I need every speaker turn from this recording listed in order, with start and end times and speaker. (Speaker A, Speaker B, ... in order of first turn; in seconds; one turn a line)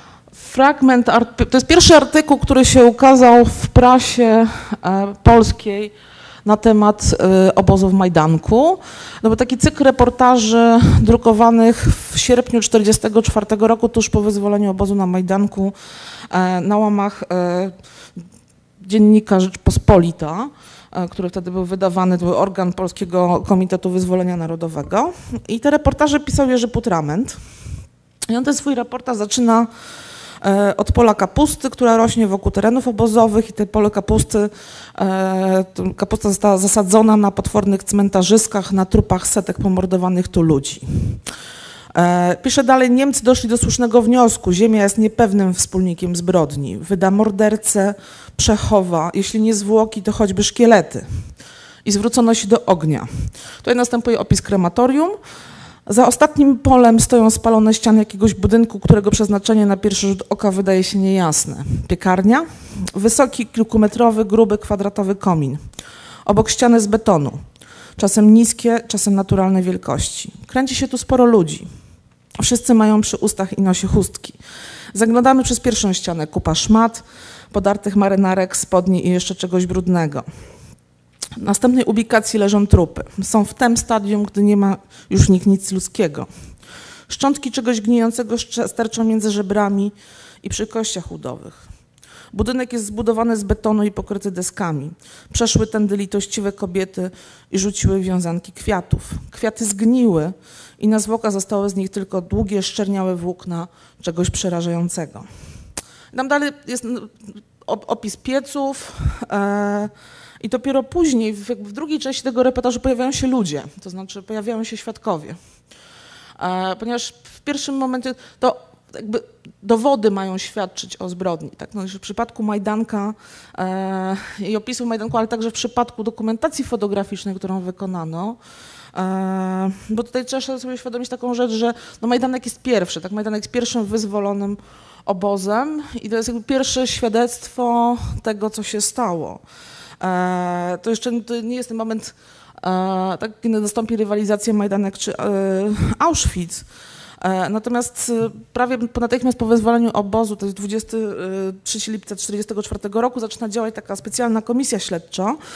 Speaker A: 0.3-5.9
Speaker A: 6.4-15.7
Speaker A: 16.3-17.8
Speaker A: 18.8-27.4
Speaker A: 28.3-29.7
Speaker A: 30.4-41.2
Speaker A: 41.9-51.3
Speaker A: 51.8-55.2
Speaker A: 55.9-65.6
Speaker A: 66.2-67.4
Speaker A: 68.0-71.7
Speaker A: 72.4-74.4
Speaker A: 74.9-80.3
Speaker A: 81.4-86.3
Speaker A: 87.1-91.7
Speaker A: 92.3-105.2
Speaker A: 106.1-115.4
Speaker A: 116.4-128.4
Speaker A: 128.9-139.4
Speaker A: 140.0-146.7
Speaker A: 147.2-155.4